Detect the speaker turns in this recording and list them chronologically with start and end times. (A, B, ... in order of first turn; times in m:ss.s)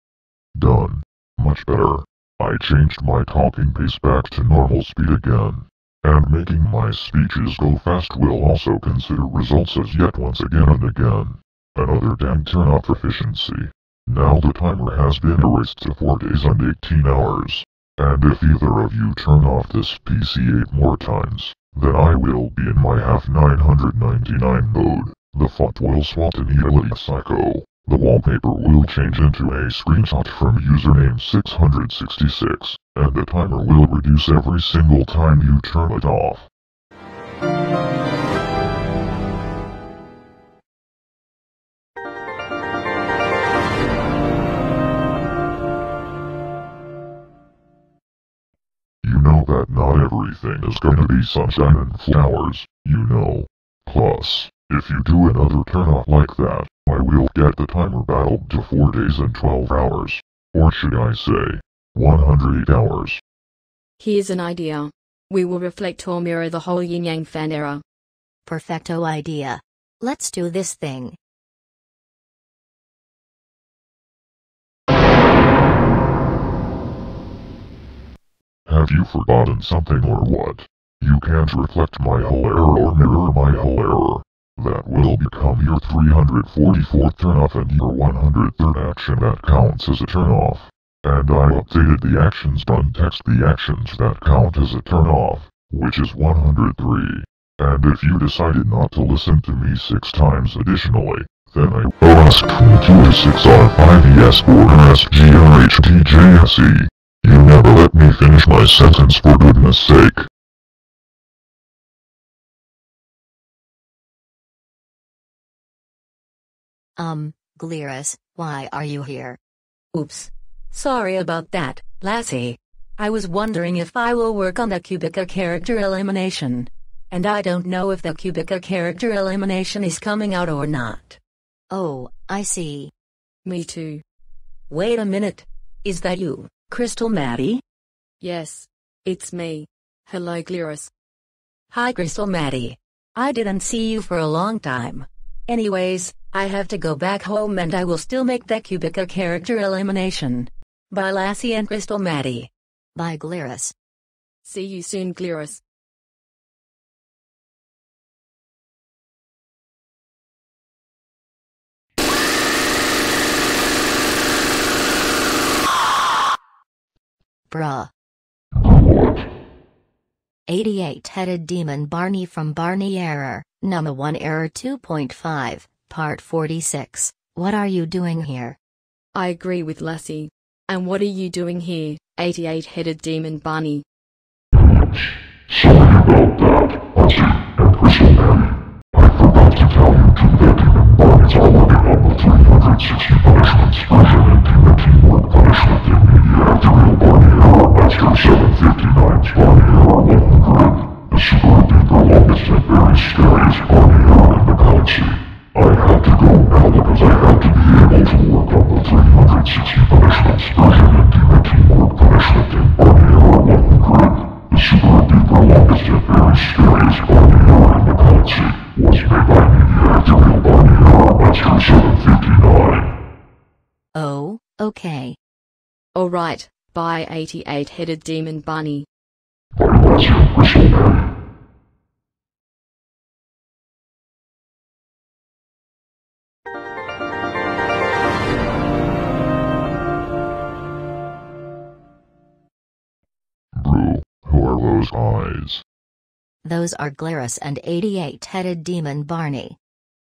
0:00.6-0:36.4 A
0:49.0-1:03.2 A
1:04.0-1:07.8 B
1:08.5-1:11.2 C
1:18.7-1:50.3 A
1:57.0-1:59.4 C
1:59.9-2:11.2 D
2:11.7-2:12.9 C
2:13.4-2:14.0 B
2:14.7-2:17.6 D
2:18.2-2:20.9 B
2:21.7-2:32.5 D
2:33.0-2:33.7 C
2:34.4-2:35.6 B
2:47.5-2:47.9 C
2:50.5-2:58.6 C
2:59.1-3:03.8 B
3:04.6-3:42.8 A
3:43.9-3:45.2 C
3:45.9-3:48.9 B
3:49.6-3:51.0 A
4:03.6-4:05.6 A
4:06.4-4:09.6 C